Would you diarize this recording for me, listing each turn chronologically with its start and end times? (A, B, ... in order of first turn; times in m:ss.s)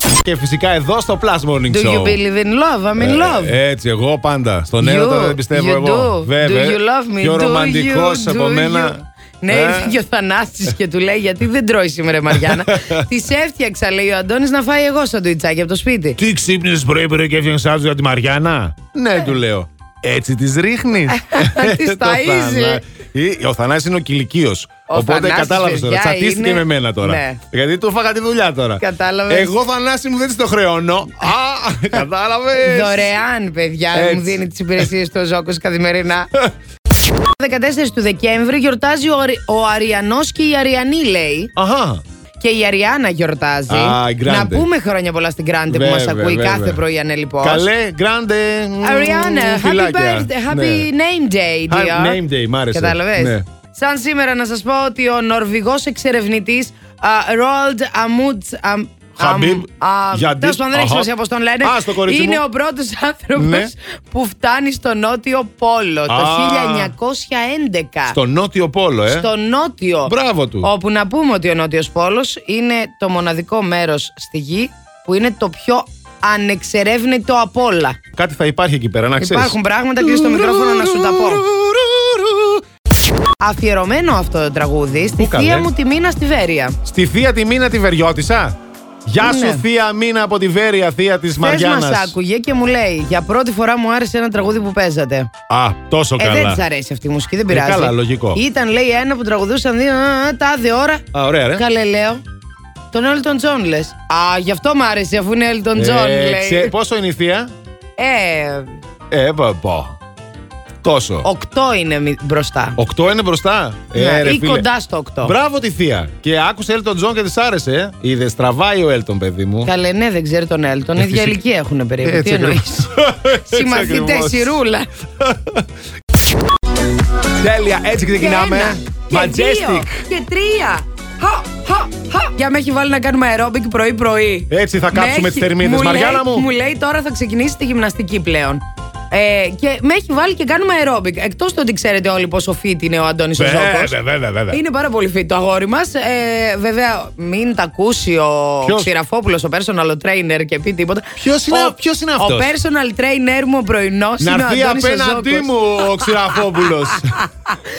0:00.2-0:02.2 A
0:01.7-0:03.6 B
0:03.0-0:10.0 A
0:04.8-0:16.2 B
0:12.4-0:13.0 A
0:16.2-0:33.1 A
0:21.1-0:22.8 B
0:24.9-0:27.4 B
0:28.8-0:29.5 B
0:32.6-0:36.3 B
0:33.9-0:34.9 A
0:37.3-0:41.5 B
0:41.6-0:42.0 A
0:42.4-0:47.6 B
0:43.7-0:44.7 A
0:45.7-0:46.8 A
0:47.4-0:50.9 A
0:48.8-0:52.2 B
0:51.7-0:53.4 A
0:52.7-1:08.2 B
0:59.2-1:01.1 A
1:01.6-1:02.4 A
1:03.3-1:03.7 A
1:06.1-1:06.9 A
1:08.1-1:09.3 A
1:09.1-1:18.0 B
1:10.0-1:10.7 A
1:18.1-1:22.6 A
1:19.2-1:21.4 B
1:23.4-1:26.8 B
1:25.2-1:25.7 A
1:26.8-1:32.1 A
1:29.2-1:29.6 B
1:31.4-1:35.3 B
1:35.5-1:36.6 A
1:36.2-1:42.2 B
1:37.5-1:38.4 A
1:41.1-1:41.6 A
1:42.9-1:46.7 B
1:45.7-1:47.5 A
1:48.0-1:48.8 B
1:49.1-1:50.0 A
1:50.8-1:51.3 A
1:51.2-1:52.8 B
1:52.8-1:54.6 A
1:53.9-1:55.4 B
1:55.2-1:59.7 A
1:59.6-2:04.9 B
2:01.0-2:01.4 A
2:02.0-2:04.6 A
2:05.2-2:05.6 A
2:07.3-2:10.0 A
2:08.1-2:23.9 B
2:14.5-2:16.5 A
2:23.4-2:24.6 A
2:24.5-2:36.1 B
2:28.6-2:28.9 A
2:31.2-2:32.5 A
2:34.2-2:37.2 A
2:36.9-2:37.5 B